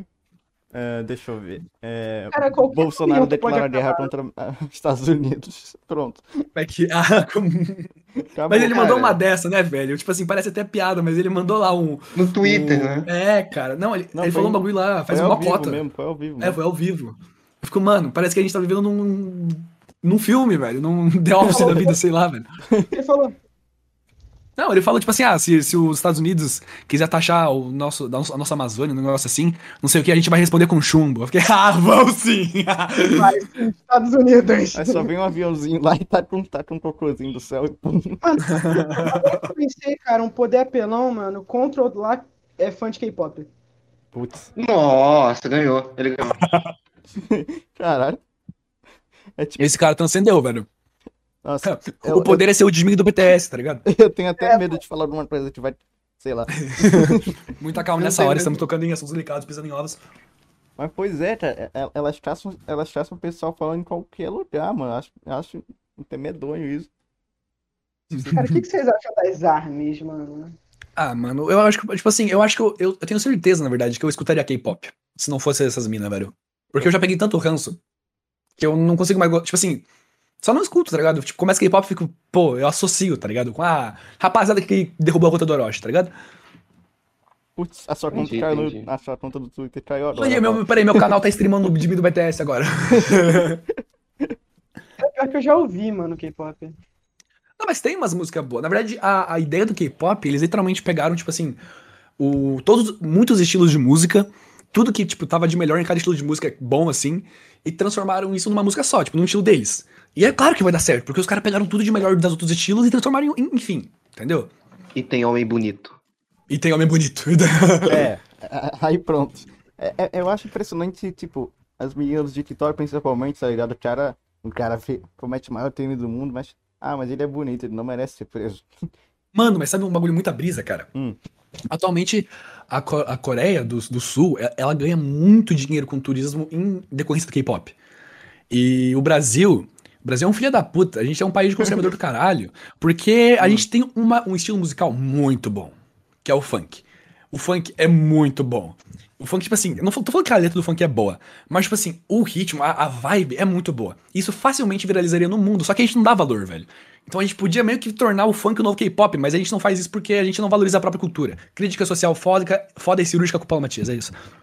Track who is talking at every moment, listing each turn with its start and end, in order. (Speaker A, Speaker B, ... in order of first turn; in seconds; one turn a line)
Speaker A: 0.7-6.2
Speaker B: 2.3-4.1
Speaker C: 6.5-7.9
Speaker A: 8.3-8.9
Speaker C: 8.5-15.8
Speaker D: 8.7-9.2
Speaker D: 12.1-13.1
Speaker A: 14.1-16.6
Speaker C: 16.4-22.4
Speaker A: 21.4-21.8
Speaker B: 21.4-22.0
Speaker B: 22.9-23.4
Speaker C: 24.6-33.3
Speaker B: 33.1-35.1
Speaker A: 34.7-38.2
Speaker B: 38.2-43.5
Speaker C: 38.5-39.3
Speaker A: 44.1-44.5
Speaker D: 44.5-46.5
Speaker A: 47.1-48.2
Speaker A: 49.4-49.7
Speaker C: 49.6-50.7
Speaker A: 51.4-52.5
Speaker C: 51.6-53.8
Speaker A: 53.9-57.4
Speaker B: 54.4-54.8
Speaker C: 56.5-60.0
Speaker A: 58.0-58.4
Speaker A: 60.8-66.9
Speaker A: 68.1-68.4
Speaker C: 68.1-68.6
Speaker B: 68.3-70.5
Speaker C: 71.0-77.8
Speaker C: 78.6-79.8
Speaker C: 80.4-86.1
Speaker A: 87.5-91.1
Speaker D: 88.1-88.8
Speaker C: 90.1-93.6
Speaker A: 92.9-93.6
Speaker B: 95.0-96.8
Speaker C: 97.6-101.6
Speaker C: 102.2-114.5
Speaker D: 114.9-116.0
Speaker C: 116.5-118.1
Speaker A: 117.9-128.9
Speaker C: 129.3-130.9
Speaker C: 131.7-137.7
Speaker C: 138.5-145.7
Speaker A: 143.4-143.6
Speaker C: 146.2-164.1